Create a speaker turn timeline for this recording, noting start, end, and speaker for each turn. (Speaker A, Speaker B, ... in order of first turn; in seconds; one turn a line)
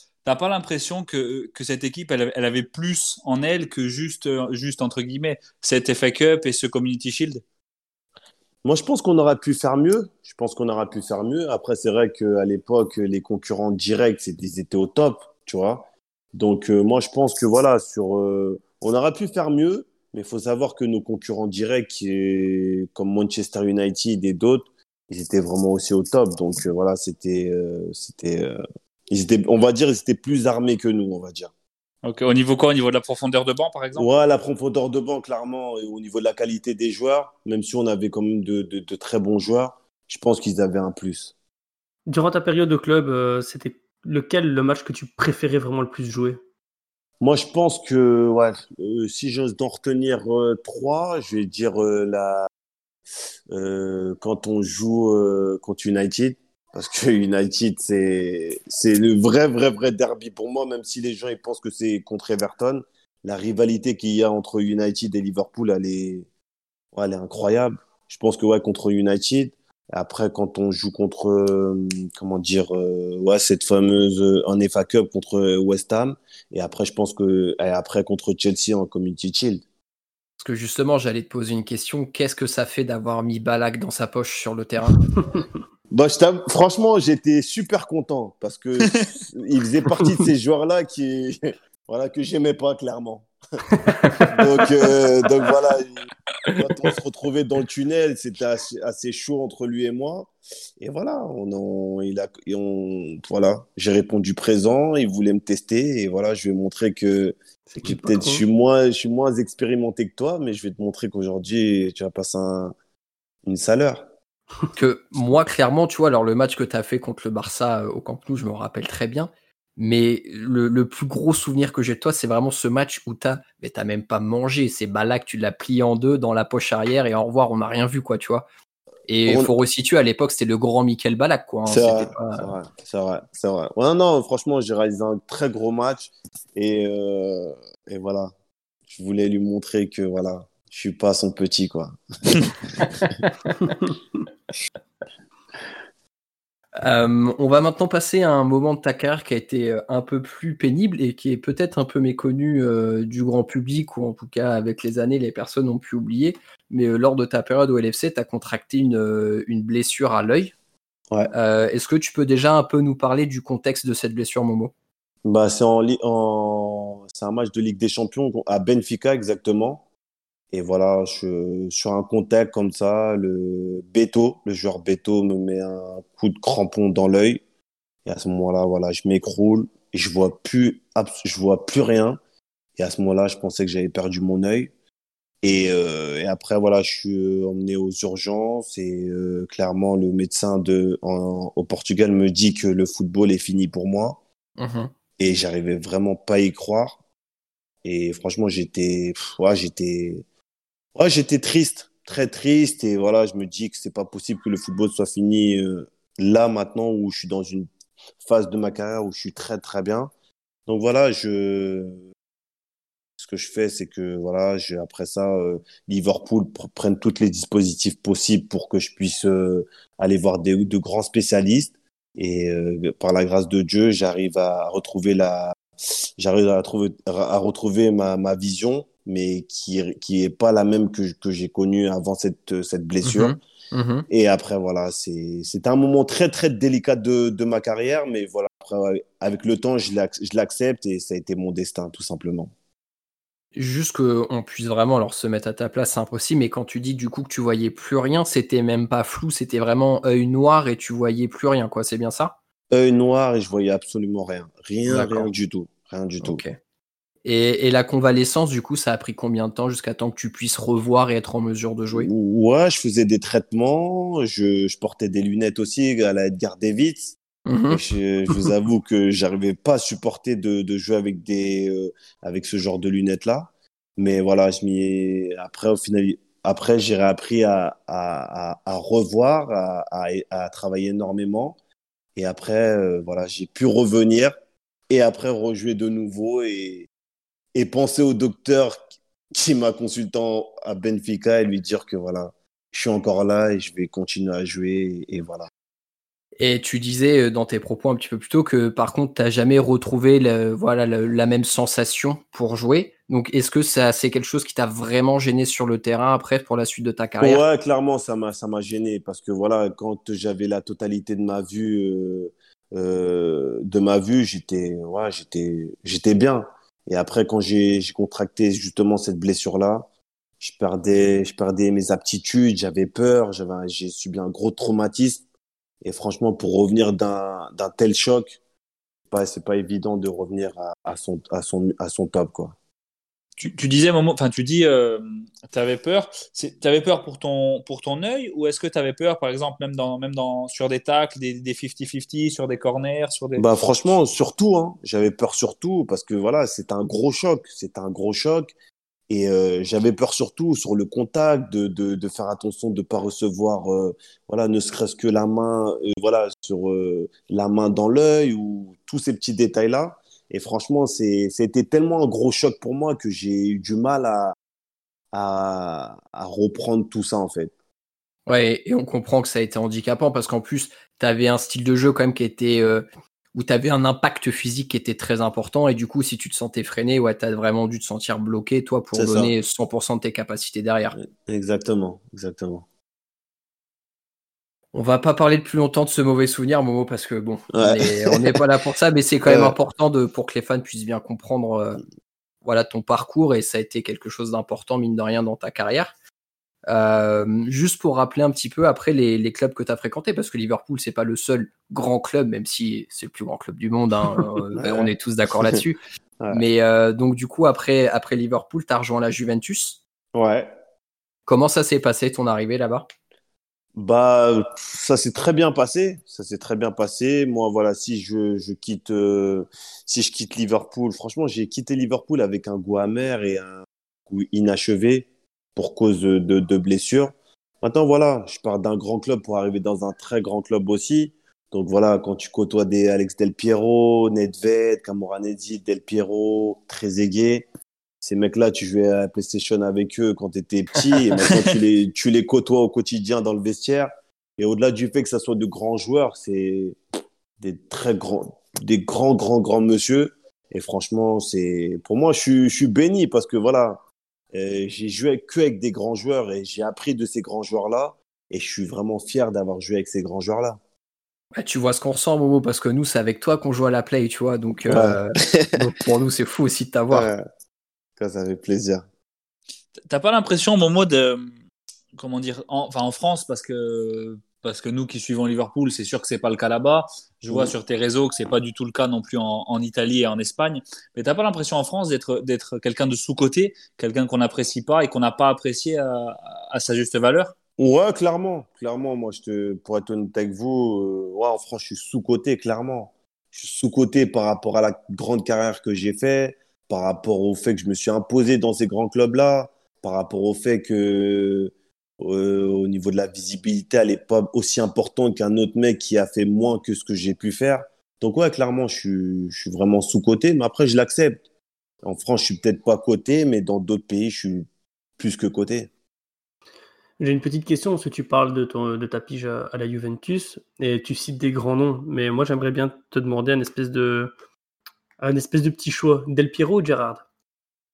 Speaker A: 0.2-7.4
Speaker B: 8.6-31.5
Speaker A: 32.0-34.1
Speaker B: 34.0-41.3
Speaker C: 42.1-46.4
Speaker B: 47.2-52.5
Speaker B: 53.5-66.3
Speaker B: 66.9-79.6
Speaker D: 80.4-85.0
Speaker B: 85.9-93.3
Speaker C: 93.8-94.2
Speaker B: 94.3-112.7
Speaker C: 107.7-108.4
Speaker B: 113.4-114.1
Speaker D: 114.8-128.4
Speaker D: 129.1-132.5
Speaker B: 129.2-129.5
Speaker B: 131.6-138.3
Speaker B: 138.9-143.2
Speaker D: 146.8-160.5
Speaker D: 161.3-164.7
Speaker B: 165.2-169.8
Speaker B: 170.5-177.4
Speaker B: 178.0-182.2
Speaker B: 182.8-184.7
Speaker B: 185.4-194.2
Speaker D: 194.6-194.9
Speaker B: 195.2-197.0
Speaker B: 197.8-200.2
Speaker B: 200.9-207.7
Speaker B: 208.2-210.1
Speaker B: 210.7-212.0
Speaker B: 213.2-233.3
Speaker D: 233.0-234.1
Speaker B: 234.1-242.5
Speaker D: 243.6-252.3
Speaker B: 252.7-256.4
Speaker D: 254.9-255.3
Speaker D: 256.2-256.6
Speaker D: 257.2-262.1
Speaker B: 261.9-267.2
Speaker D: 267.4-267.8
Speaker B: 267.7-281.6
Speaker B: 282.1-284.3
Speaker B: 284.9-286.9
Speaker B: 287.5-295.5
Speaker D: 296.4-307.4
Speaker B: 307.2-319.9
Speaker B: 320.4-325.2
Speaker B: 325.8-328.4
Speaker B: 329.1-332.6
Speaker A: 333.4-343.4
Speaker B: 343.4-348.5
Speaker B: 349.1-364.3
Speaker B: 365.1-367.5
Speaker D: 368.3-381.0
Speaker B: 378.9-379.3
Speaker B: 381.0-382.6
Speaker D: 384.7-391.8
Speaker B: 387.5-388.3
Speaker B: 389.3-389.5
Speaker D: 392.4-395.9
Speaker D: 396.7-409.8
Speaker B: 404.6-404.9
Speaker B: 410.1-410.5
Speaker D: 411.3-412.9
Speaker B: 413.8-437.5
Speaker B: 438.0-446.8
Speaker B: 447.4-453.8
Speaker B: 454.3-460.6
Speaker D: 461.3-467.1
Speaker B: 464.7-465.6
Speaker B: 466.9-467.2
Speaker B: 468.0-468.8
Speaker A: 469.9-471.3
Speaker A: 471.9-487.3
Speaker B: 487.6-511.2
Speaker B: 511.8-514.5
Speaker B: 515.0-515.7
Speaker C: 517.0-524.1
Speaker C: 525.0-527.0